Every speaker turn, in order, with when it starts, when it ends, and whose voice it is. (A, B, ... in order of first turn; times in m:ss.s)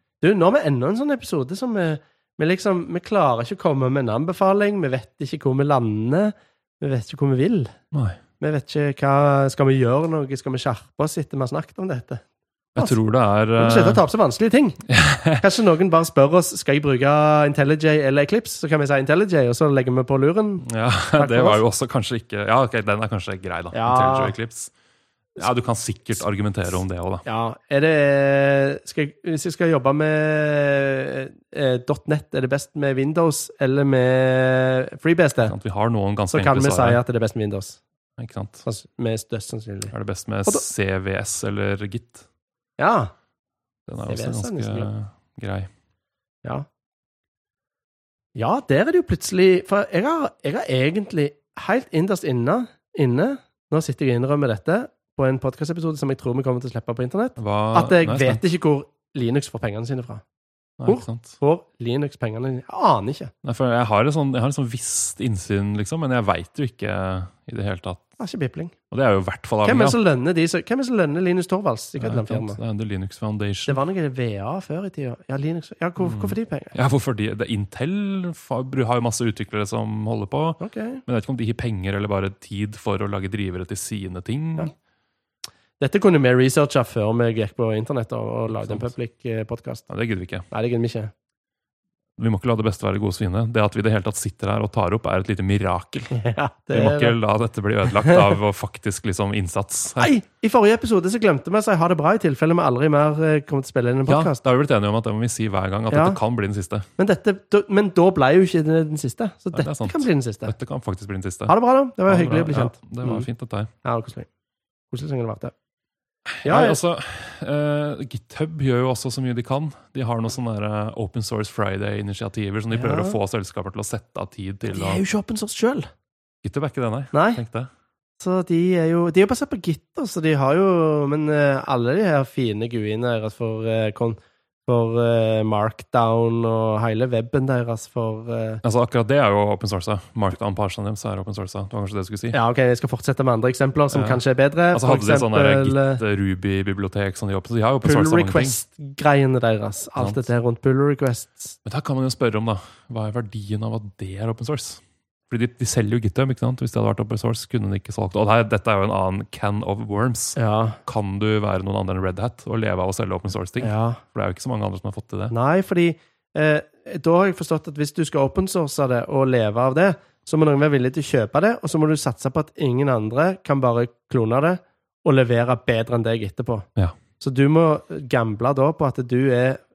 0:00.2-0:07.7 A
0:07.9-0:08.2 B
0:08.4-0:12.2 A
0:12.8-0:14.0 B
0:13.6-0:14.8 A
0:14.9-0:15.4 B
0:15.4-0:20.6 A
0:20.6-0:24.7 B
0:21.2-0:21.6 A
0:23.7-0:24.3 A
0:25.4-0:27.2 B
0:27.2-0:35.5 A
0:35.4-0:37.0 B
0:36.3-0:37.8 A
0:38.2-0:38.6 B
0:38.6-0:39.9 A
0:39.9-0:42.2 B
0:42.8-0:43.1 A
0:43.9-0:45.7 B
0:44.1-0:44.9 A
0:48.4-1:00.2 A
0:57.4-0:58.4 B
1:00.8-1:01.4 B
1:00.9-1:03.3 A
1:03.4-1:08.0 B
1:08.2-1:08.7 A
1:08.9-1:10.0 B
1:09.6-1:12.6 A
1:12.0-1:13.8 B
1:13.7-1:16.8 A
1:16.0-1:24.7 B
1:20.6-1:21.0 A
1:25.8-1:29.9 A
1:28.6-1:28.9 B
1:29.9-1:30.4 B
1:30.5-1:31.1 A
1:32.2-1:36.2 B
1:36.1-1:37.1 A
1:36.7-1:40.1 B
1:38.0-1:38.3 A
1:40.0-1:44.4 A
1:44.1-1:46.9 B
1:45.9-1:46.2 A
1:47.0-1:50.5 A
1:49.5-1:51.5 B
1:51.5-1:53.2 A
1:52.0-1:53.7 B
1:53.8-1:54.3 A
1:54.9-1:55.5 A
1:56.3-2:05.0 B
1:56.4-1:56.8 A
2:02.7-2:03.2 A
2:04.6-2:05.9 A
2:06.4-2:07.7 B
2:07.1-2:07.4 A
2:08.2-2:18.6 A
2:18.6-2:22.4 B
2:22.3-2:26.0 A
2:23.9-2:24.2 B
2:24.7-2:28.6 B
2:27.8-2:31.6 A
2:30.0-2:30.3 B
2:31.6-2:45.3 B
2:40.4-2:40.8 A
2:43.6-2:44.0 A
2:45.3-2:56.6 A
2:57.2-2:59.6 A